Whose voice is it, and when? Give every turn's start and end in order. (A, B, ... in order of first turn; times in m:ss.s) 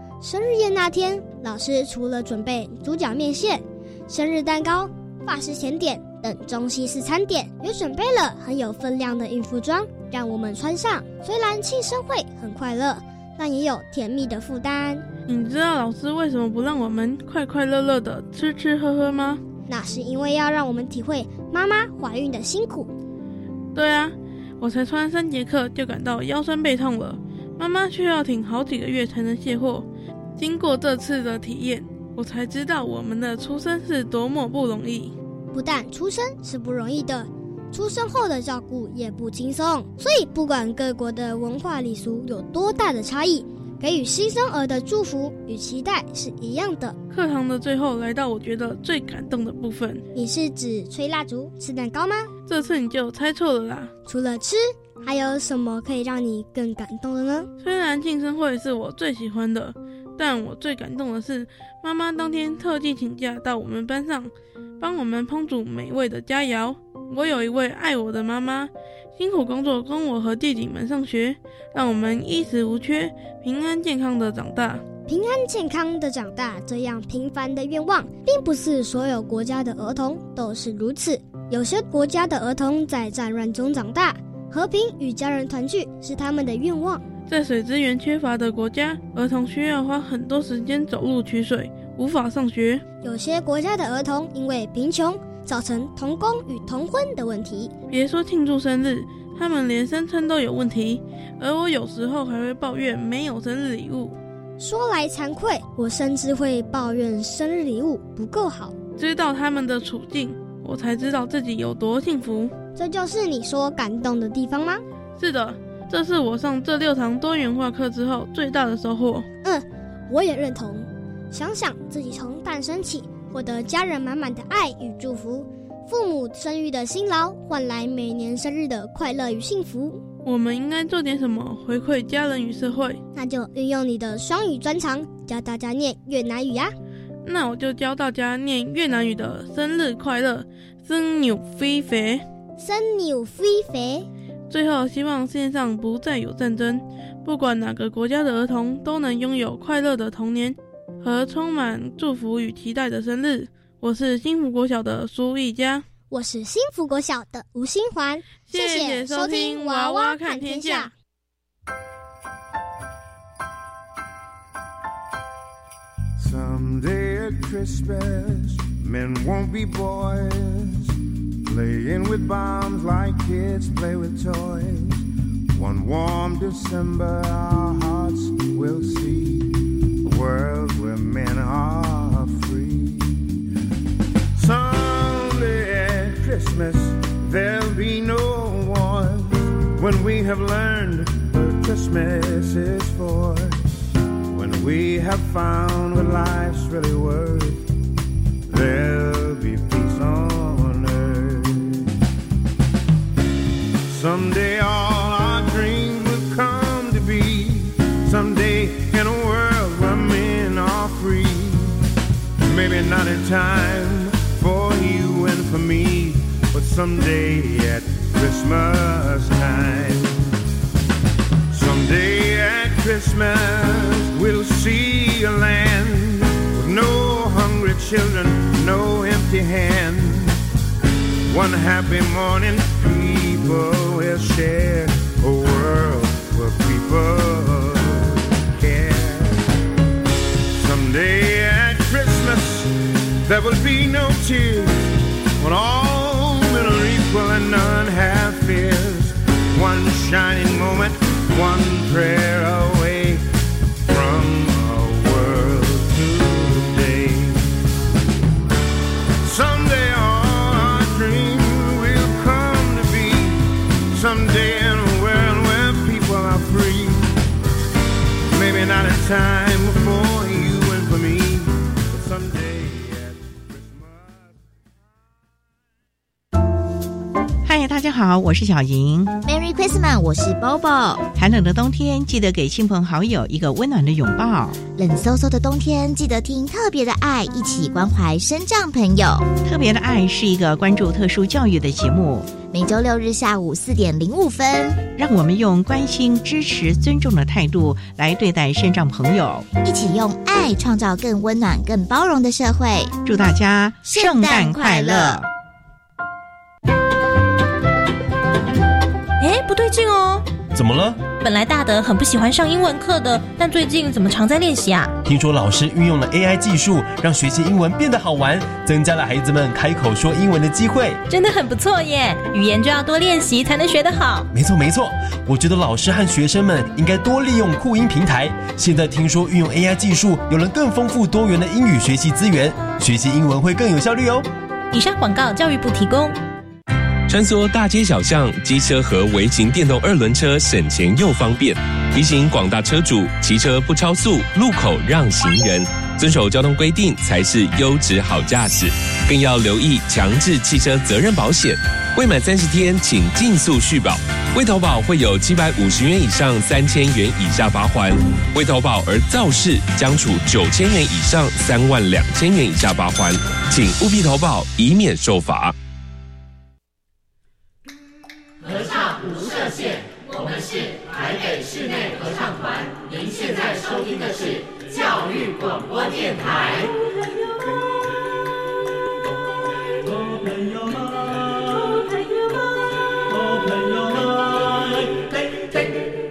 0:00.2-0:15.0 A
0:15.3-0:19.4 B
0:19.7-0:22.9 A
0:23.7-0:35.1 B
0:35.5-0:47.0 A
0:47.1-0:50.0 B
0:50.1-0:52.3 A
0:52.5-0:53.9 B
0:54.0-0:57.5 A
0:57.6-1:14.8 B
1:15.1-1:27.0 A
1:27.3-1:32.8 B
1:33.0-1:37.7 A
1:37.9-1:44.2 B
1:44.6-1:48.7 A
1:49.0-1:52.5 B
1:52.8-1:54.8 A
1:55.2-1:59.2 B
1:59.4-2:10.0 A
2:10.2-2:13.0 B
2:13.1-2:16.7 A
2:17.2-2:22.2 B
2:22.6-2:24.1 A
2:24.5-2:35.8 B
2:36.1-2:40.9 A
2:38.5-2:40.9 B
2:46.2-3:03.4 C
3:04.3-3:13.6 C
3:14.3-3:17.6 C
3:18.5-3:21.8 C
3:23.8-3:31.8 C
3:32.4-3:40.3 C
3:41.5-3:50.4 C
3:51.3-3:59.4 C
4:00.5-4:13.2 C
4:13.8-4:17.5 C
4:19.2-4:27.1 C
4:28.3-4:34.4 C
4:37.4-4:39.1 D
4:39.2-4:41.0 E
4:41.2-4:44.6 D
4:44.6-4:49.3 E
4:49.4-4:52.4 D
4:52.3-4:54.8 E
4:55.0-4:59.5 D
4:59.6-5:02.9 E
5:03.0-5:05.3 D
5:03.8-5:05.2 E
5:09.2-5:10.2 F
5:10.5-5:11.0 G
5:11.2-5:14.9 F
5:15.0-5:21.0 G
5:21.1-5:24.3 F
5:24.3-5:34.3 G
5:34.7-5:36.2 F
5:37.1-6:05.5 H